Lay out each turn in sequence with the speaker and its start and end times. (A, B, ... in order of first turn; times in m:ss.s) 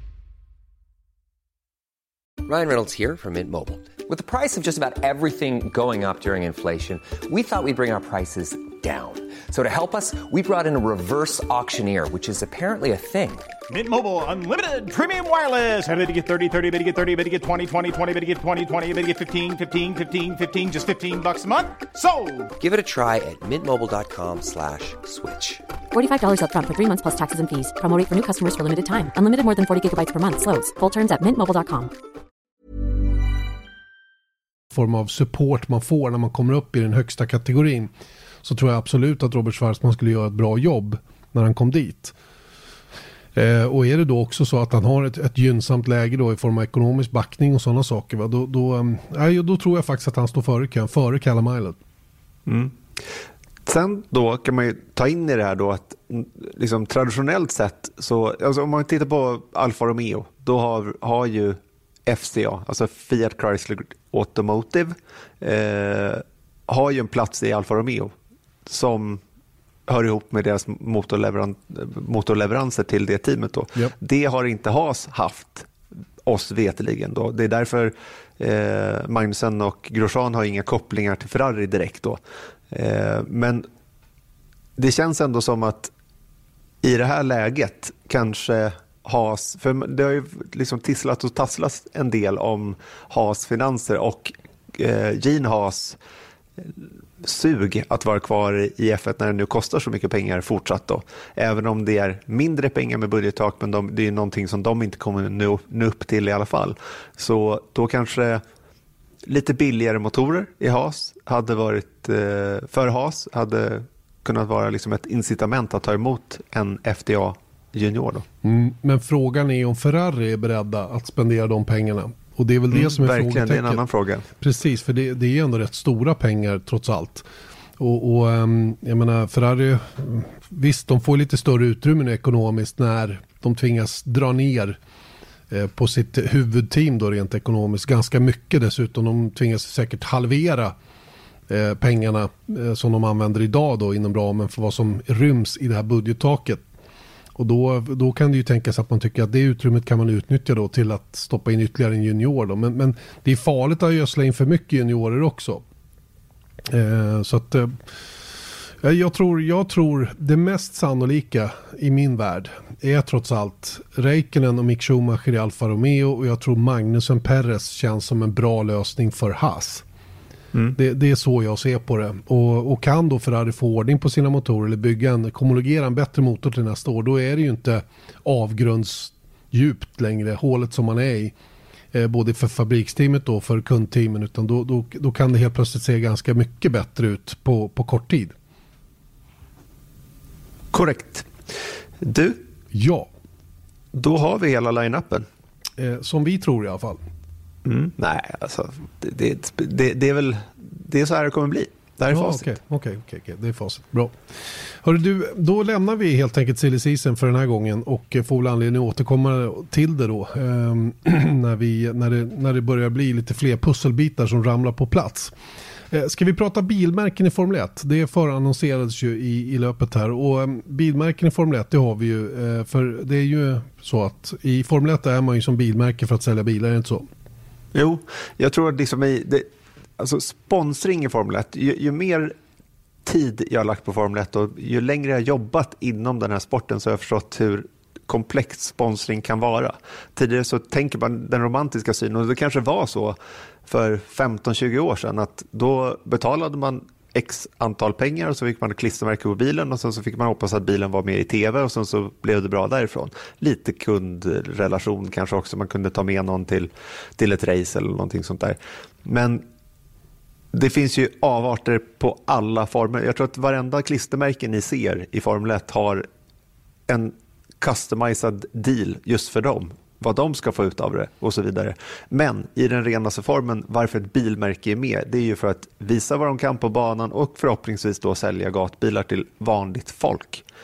0:02.4-0:13.5 A
0:13.7-0:22.5 B
0:22.6-0:25.6 A
0:25.9-0:31.9 C
0:34.7-0:37.9 D
0:38.4-0:42.2 D
0:43.4-0:51.8 D
0:52.5-0:52.8 E
0:53.6-1:08.1 E
1:08.7-1:09.2 E
1:09.9-1:15.7 E
1:16.2-1:22.2 E
1:22.7-1:23.7 E
1:24.8-1:25.9 E
1:26.8-1:36.0 E
1:36.6-1:48.4 E
1:49.2-1:58.2 E
1:58.4-2:03.8 D
2:02.7-2:04.2 E
2:04.4-2:07.2 D
2:07.8-2:14.8 D
2:15.5-2:20.7 D
2:21.5-2:26.6 D
2:27.4-2:35.6 D
2:36.7-2:37.8 D
2:38.8-2:49.8 D
2:50.8-3:01.3 D
3:01.9-3:08.3 D
3:10.7-3:11.3 E
3:12.0-3:12.4 E
3:12.7-3:13.1 D
3:13.9-3:15.3 E
3:15.8-3:17.0 D
3:17.6-3:22.5 E
3:22.1-3:24.2 D
3:24.8-3:35.3 D
3:35.9-3:47.1 D
3:47.7-3:49.5 E
3:50.0-3:52.4 E
3:53.0-4:19.4 E
4:20.5-4:26.1 E
4:26.9-4:40.4 E